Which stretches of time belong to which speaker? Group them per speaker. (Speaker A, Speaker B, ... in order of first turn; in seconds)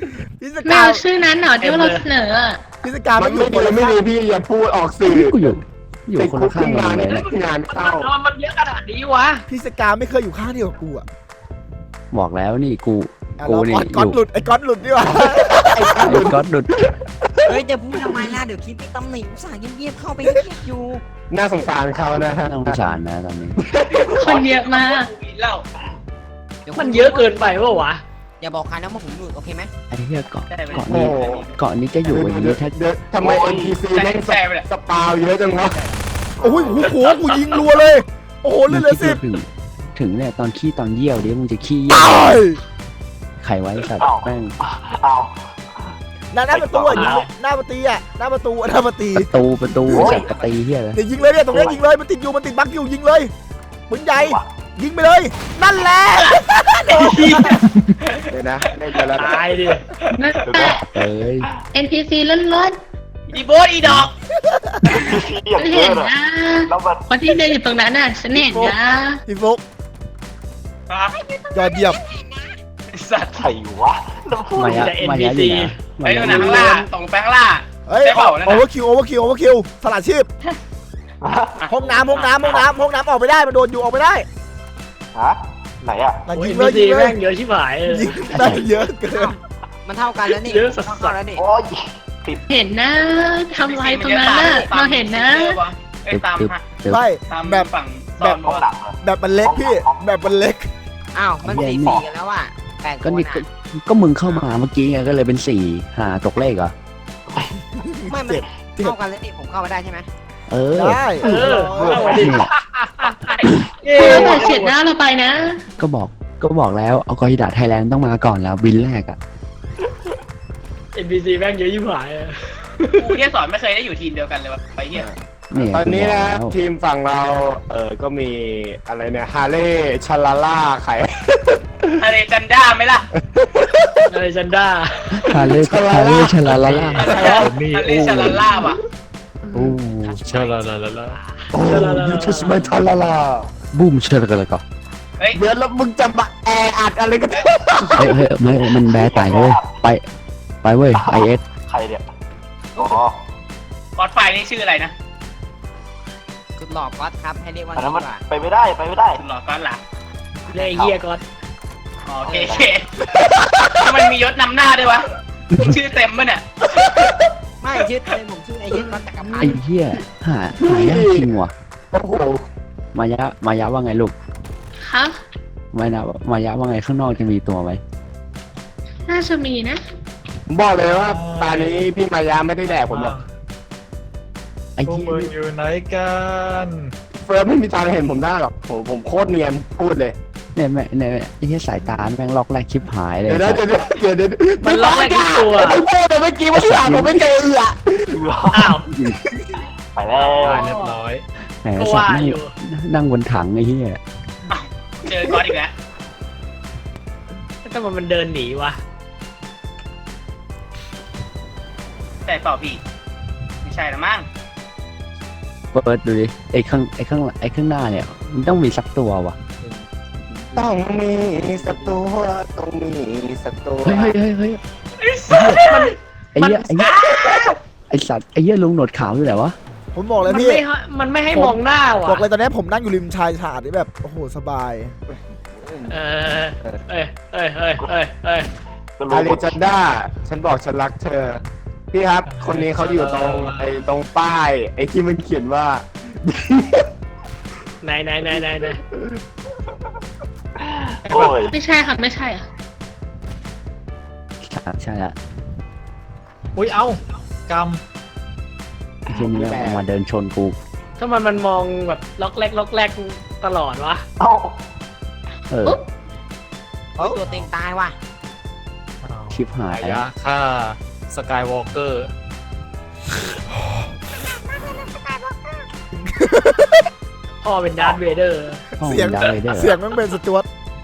Speaker A: 0.4-1.0, 2.8-4.0, 9.5-11.1, 13.4-16.2, 36.4-39.2, 41.9-42.6, 46.3-49.3, 49.9-50.2, 50.9-53.3, 53.9-57.5, 64.5-65.0, 68.3-69.6, 71.5-72.0, 77.9-80.3, 81.7-84.3, 86.3-87.2, 87.8-89.3, 96.9-98.4, 99.0-100.7, 107.8-109.0, 110.7-112.2, 229.9-230.6, 231.3-234.9, 273.6-273.9, 275.9-276.9, 278.8-280.5
Speaker B: 0.7-2.6, 24.2-25.1, 60.1-60.9, 61.7-62.8, 65.6-69.2, 92.5-95.6, 113.9-115.6, 174.8-175.2, 179.1-179.8, 251.5-252.4
Speaker C: 1.6-2.0, 7.7-9.5, 26.8-28.0, 59.1-59.8, 74.6-75.7, 86.3-88.1, 90.4-91.2, 111.2-114.8, 121.0-123.1, 134.1-135.5, 141.6-142.7, 160.5-161.2, 194.6-195.8, 198.5-198.9, 200.4-201.0, 201.8-202.5, 207.7-208.8, 225.6-226.8, 230.2-232.2, 235.9-238.5, 247.8-248.8, 261.0-264.1, 277.4-278.6
Speaker D: 3.2-5.3, 6.2-8.1, 15.1-18.4, 21.3-22.9, 23.6-24.3, 30.8-31.5, 32.1-35.8, 58.3-59.5, 124.9-132.0, 133.2-134.1, 135.6-137.6, 141.5-143.5, 145.3-148.2, 163.3-163.8, 166.8-167.1, 168.7-169.5, 170.6-171.3, 171.9-172.4, 180.5-183.2, 187.2-190.2, 193.3-198.1, 220.5-224.1, 235.6-235.9, 239.1-241.4, 241.9-246.9, 248.6-249.2, 259.2-259.9
Speaker E: 5.1-7.3, 12.1-14.2, 16.0-16.7, 22.4-23.6, 29.9-32.7, 38.7-42.4, 43.4-44.5, 49.1-51.0, 60.9-61.5, 63.8-64.1, 74.6-76.9, 88.3-88.7, 96.1-97.0, 101.4-102.0, 103.0-106.7, 110.5-111.0, 112.2-112.5, 115.8-119.2, 125.5-126.6, 135.1-137.1, 139.5-140.2, 143.7-144.6, 148.0-150.0, 150.6-151.4, 169.4-171.5, 172.9-174.2, 175.7-177.8, 184.8-185.3, 190.6-193.6, 196.5-197.2, 198.9-199.2, 201.6-204.0, 215.7-219.4, 223.8-224.6, 225.3-225.8, 226.3-227.4, 227.9-229.6, 254.4-255.2, 259.1-260.6, 265.5-265.8, 269.3-270.1, 278.8-279.8
Speaker F: 17.4-21.0, 26.6-27.8, 28.4-29.7, 50.1-50.5, 71.2-72.5, 89.1-91.5, 101.1-103.5, 108.1-110.1, 140.2-140.6, 152.8-153.0, 156.6-158.2, 162.2-162.8, 167.6-169.6, 267.0-268.0, 274.6-275.4
Speaker G: 23.9-25.6, 30.5-31.5, 33.9-34.7, 57.0-58.3, 63.3-64.1, 70.9-71.2, 72.9-73.5, 76.0-78.7, 81.6-82.6, 93.6-96.6, 97.3-98.7, 123.0-125.1, 132.0-133.1, 137.0-138.8, 154.0-154.9, 159.2-159.8, 162.1-162.9, 163.8-166.4, 204.5-205.7, 212.3-212.8, 213.6-214.3, 225.0-225.9, 226.8-227.6
Speaker H: 33.2-33.8, 36.4-37.1, 44.0-46.0, 46.5-47.3, 49.9-50.3, 51.5-51.9, 54.2-54.5, 57.1-57.5, 60.4-60.9, 64.9-66.1, 66.7-67.1, 73.4-74.9, 81.2-81.7, 85.2-86.2, 91.3-92.5, 98.2-100.1, 107.3-107.6, 111.2-112.4, 114.0-114.5, 148.9-149.7, 150.9-152.0, 152.8-153.2, 157.7-159.2, 160.6-160.9, 198.1-198.8, 199.9-200.7, 239.0-239.7, 250.6-251.6, 264.2-264.6
Speaker I: 46.9-47.3, 136.5-138.5, 140.1-141.2, 180.9-181.9, 182.7-183.3, 184.8-186.9, 200.4-201.2, 242.3-243.7, 251.1-251.4, 256.6-257.8, 267.2-267.5, 269.0-272.1